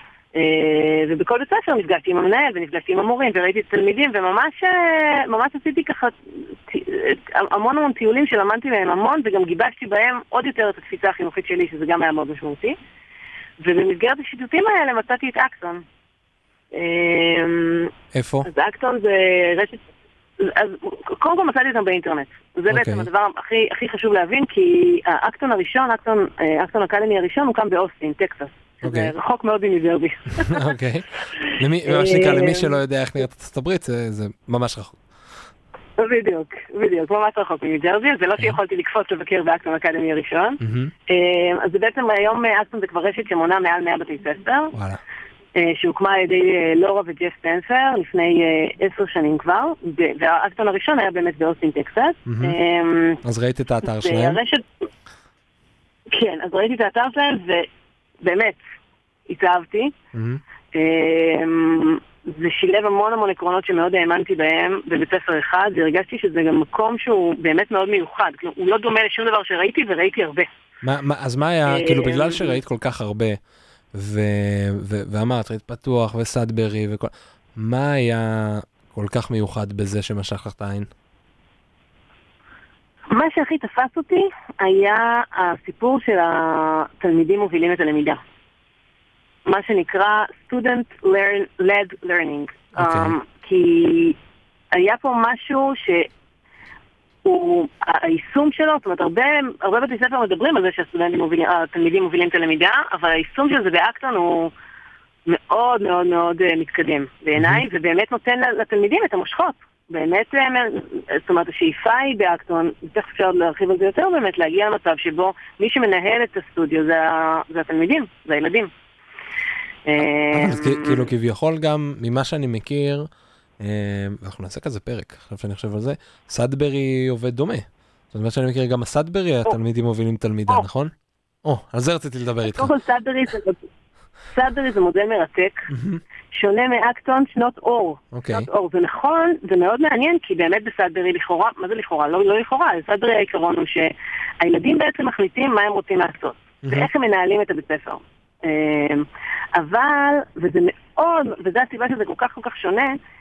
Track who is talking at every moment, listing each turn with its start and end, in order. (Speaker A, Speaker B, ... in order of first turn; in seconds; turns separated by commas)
Speaker A: 0.3-12.8, Speaker A: 13.6-15.9, Speaker A: 16.7-17.9, Speaker B: 18.1-18.5, Speaker A: 18.4-19.8, Speaker A: 20.4-30.7, Speaker B: 22.7-23.1, Speaker B: 28.8-29.1, Speaker B: 30.4-35.0, Speaker A: 31.4-32.8, Speaker A: 36.0-44.7, Speaker B: 40.6-40.9, Speaker B: 44.7-45.0, Speaker A: 45.5-53.2, Speaker B: 52.3-52.6, Speaker B: 53.2-54.4, Speaker A: 53.8-54.7, Speaker A: 56.1-57.7, Speaker A: 58.2-58.6, Speaker A: 59.3-59.9, Speaker B: 60.1-60.4, Speaker A: 60.7-70.5, Speaker B: 70.8-73.4, Speaker A: 71.7-72.6, Speaker B: 73.9-80.9, Speaker A: 83.1-88.2, Speaker A: 89.5-94.2, Speaker B: 92.8-93.2, Speaker A: 94.7-96.1, Speaker A: 97.2-104.5, Speaker A: 105.3-118.7, Speaker B: 107.4-107.6, Speaker A: 119.9-121.1, Speaker B: 120.0-123.1, Speaker B: 123.6-130.9, Speaker B: 131.4-132.7, Speaker A: 132.4-133.6, Speaker A: 134.3-135.7, Speaker B: 135.7-136.0, Speaker A: 136.3-153.0, Speaker B: 138.1-138.5